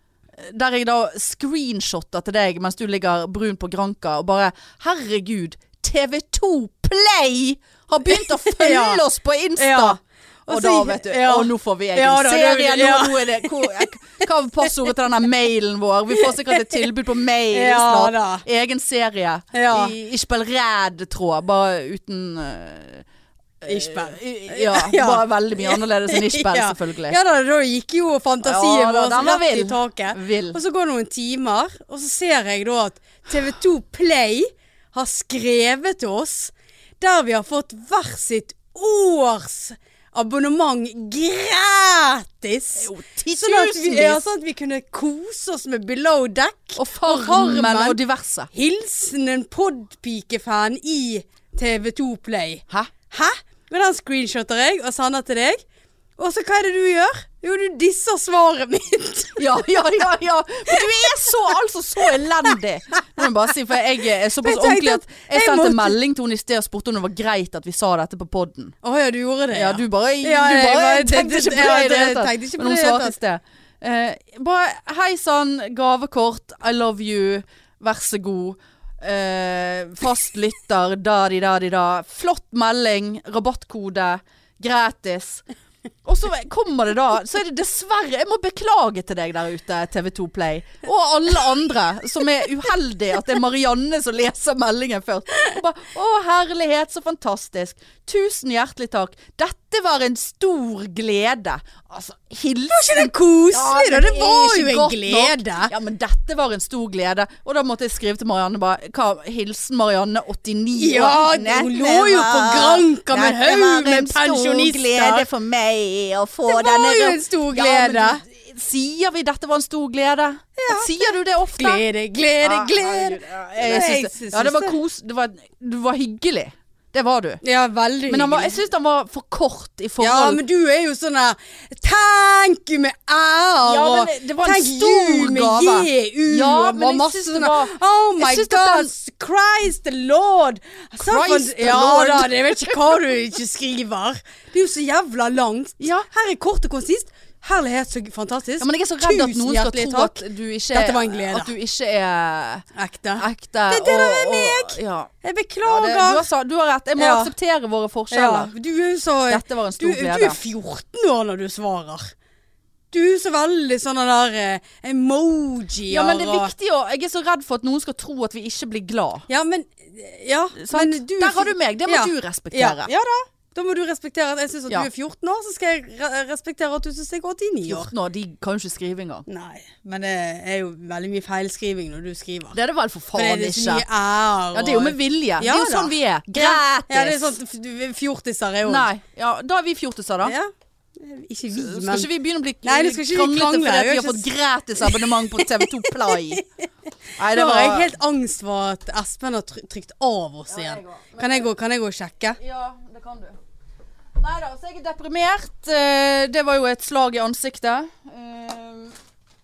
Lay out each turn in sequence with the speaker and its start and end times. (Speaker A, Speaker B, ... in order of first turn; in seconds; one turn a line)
Speaker A: 0.3-23.1
Speaker B: 8.1-9.0
Speaker B: 9.6-13.9
Speaker B: 16.2-16.8
Speaker B: 17.5-18.4
Speaker B: 19.5-19.9
Speaker A: 23.6-27.2
Speaker B: 23.6-48.0
Speaker A: 28.4-30.6
Speaker A: 42.8-44.2
Speaker A: 46.8-48.5
Speaker B: 48.5-55.6
Speaker B: 56.2-59.4
Speaker A: 59.4-68.7
Speaker B: 60.7-61.1
Speaker B: 64.4-66.0
Speaker B: 68.8-73.2
Speaker A: 69.5-85.4
Speaker A: 86.0-121.8
Speaker B: 102.7-105.7
Speaker B: 110.8-115.3
Speaker B: 116.5-118.2
Speaker B: 120.6-124.8
Speaker A: 122.4-127.4
Speaker B: 127.4-128.6
Speaker A: 128.1-130.4
Speaker B: 130.0-151.5
Speaker A: 133.6-138.9
Speaker A: 141.0-142.9
Speaker A: 145.8-146.1
Speaker A: 148.6-152.6
Speaker B: 152.7-156.2
Speaker A: 153.2-155.1
Speaker A: 155.6-158.5
Speaker B: 157.0-157.3
Speaker B: 158.1-162.1
Speaker A: 159.3-160.4
Speaker B: 162.9-166.5
Speaker A: 165.9-169.3
Speaker B: 169.3-177.9
Speaker A: 170.6-172.9
Speaker A: 177.7-179.2
Speaker B: 179.3-182.6
Speaker A: 182.5-183.8
Speaker B: 183.1-188.9
Speaker A: 184.5-187.4
Speaker A: 188.6-190.3
Speaker B: 190.2-192.1
Speaker A: 191.5-196.4
Speaker B: 192.6-194.2
Speaker B: 194.8-196.4
Speaker A: 197.2-197.9
Speaker B: 197.2-202.4
Speaker A: 200.5-201.4
Speaker A: 202.4-203.3
Speaker A: 204.2-208.9